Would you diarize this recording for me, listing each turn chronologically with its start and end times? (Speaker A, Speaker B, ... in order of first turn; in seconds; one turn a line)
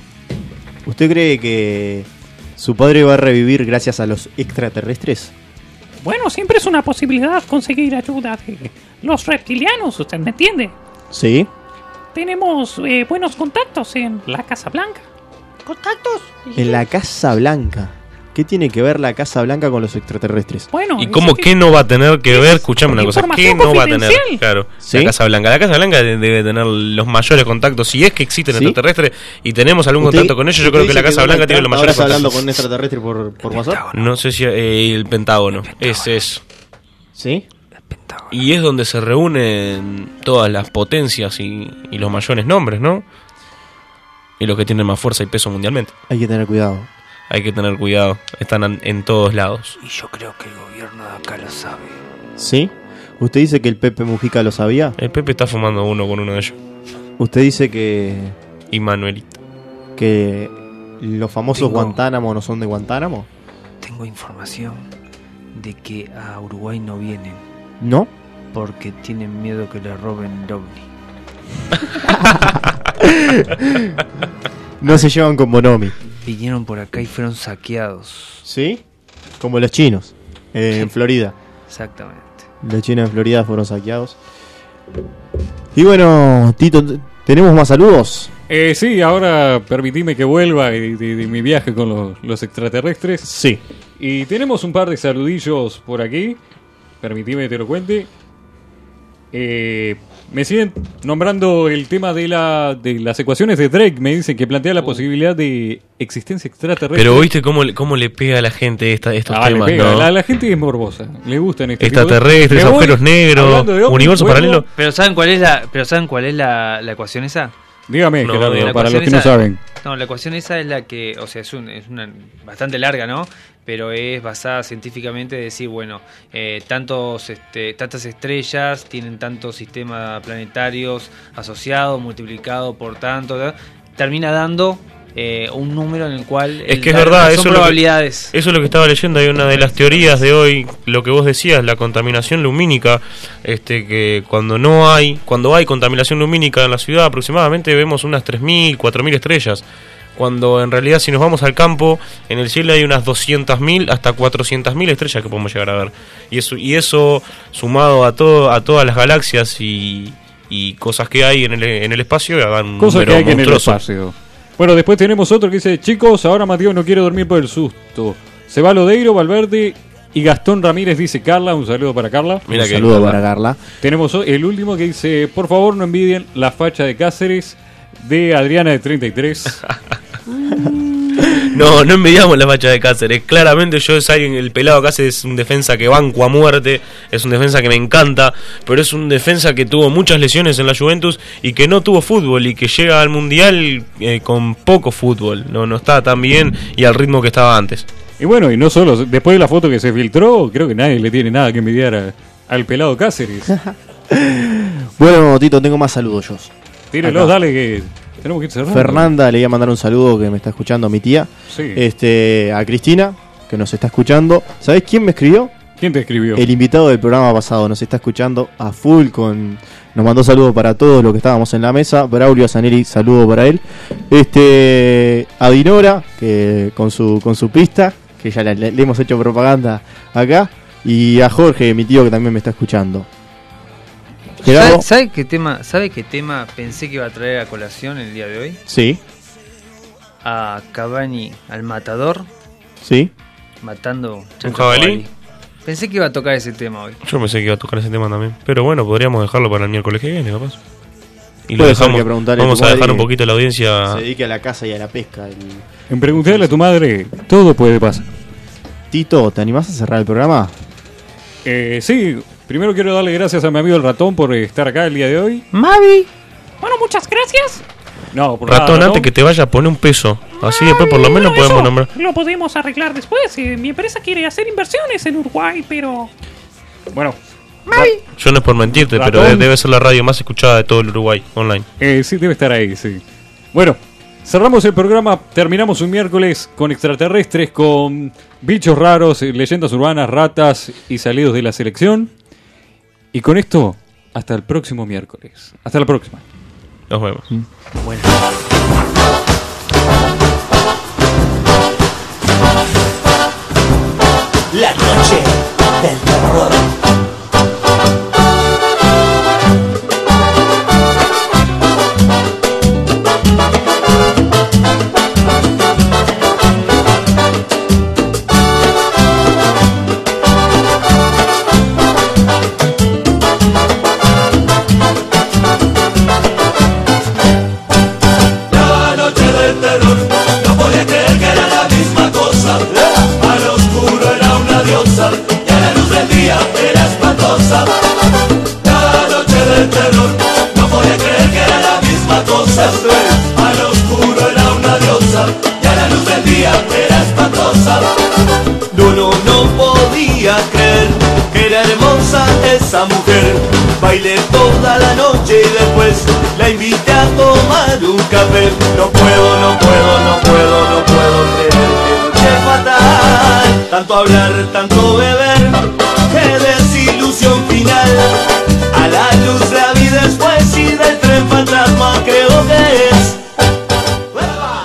Speaker A: 0.8-5.3
Speaker B: 6.0-10.8
Speaker A: 11.1-11.5
Speaker B: 12.1-15.1
Speaker C: 15.7-16.2
Speaker A: 16.6-20.7
Speaker B: 20.7-21.6
Speaker D: 21.0-32.6
Speaker B: 22.3-24.4
Speaker A: 24.8-25.1
Speaker A: 28.5-28.8
Speaker A: 30.0-33.8
Speaker C: 33.5-34.1
Speaker D: 33.9-36.4
Speaker C: 35.6-36.2
Speaker A: 37.1-37.5
Speaker C: 37.8-38.4
Speaker D: 38.3-43.0
Speaker D: 44.4-45.9
Speaker A: 46.1-46.9
Speaker D: 47.3-49.8
Speaker C: 49.8-52.0
Speaker A: 52.4-55.0
Speaker D: 55.0-56.6
Speaker A: 57.2-58.4
Speaker D: 58.7-59.4
Speaker A: 60.0-63.3
Speaker C: 61.5-62.0
Speaker C: 63.8-64.9
Speaker C: 65.5-67.4
Speaker A: 67.8-68.1
Speaker C: 68.5-70.9
Speaker A: 72.1-74.0
Speaker A: 74.8-75.9
Speaker C: 76.0-78.5
Speaker A: 78.5-78.8
Speaker A: 79.4-81.3
Speaker C: 81.7-82.5
Speaker A: 82.6-84.2
Speaker A: 85.8-88.3
Speaker E: 88.5-93.3
Speaker A: 93.2-93.6
Speaker E: 94.0-96.4
Speaker E: 97.0-98.1
Speaker E: 99.3-107.3
Speaker D: 106.9-110.1
Speaker E: 109.3-114.7
Speaker D: 111.8-114.7
Speaker C: 114.8-117.5
Speaker E: 117.9-119.6
Speaker D: 118.2-118.8
Speaker C: 118.6-138.3
Speaker D: 136.7-149.7
Speaker C: 139.6-140.1
Speaker D: 150.2-163.8
Speaker E: 162.8-172.5
Speaker D: 172.5-173.2
Speaker A: 172.5-173.6
Speaker E: 173.8-179.6
Speaker D: 181.2-197.9
Speaker E: 198.2-203.5
Speaker A: 203.5-206.5
Speaker E: 206.9-209.1
Speaker A: 207.0-207.4
Speaker A: 208.7-215.5
Speaker E: 211.5-211.8
Speaker E: 215.8-216.4
Speaker A: 216.3-233.1
Speaker A: 234.4-234.9
Speaker C: 234.4-238.6
Speaker A: 238.7-239.0
Speaker C: 240.2-242.3
Speaker A: 242.8-243.1
Speaker C: 243.6-245.1
Speaker D: 244.4-245.0
Speaker C: 245.7-247.0
Speaker D: 247.0-250.6
Speaker D: 251.5-254.0
Speaker A: 251.6-253.1
Speaker A: 253.9-255.7
Speaker E: 255.9-258.1
Speaker A: 258.9-260.5
Speaker E: 261.4-265.4
Speaker A: 265.6-266.1
Speaker B: 266.6-267.6
Speaker E: 268.1-269.1
Speaker D: 268.5-271.9
Speaker B: 270.4-276.1
Speaker E: 276.9-278.0
Speaker D: 278.2-281.7
Speaker E: 278.7-279.5
Speaker E: 281.8-283.0
Speaker E: 283.5-292.1
Speaker E: 293.1-296.2
Speaker D: 296.9-297.2
Speaker F: 304.5-306.7
Speaker F: 328.6-337.7
Speaker F: 338.6-347.9
Speaker F: 348.7-368.1
Speaker F: 368.7-373.2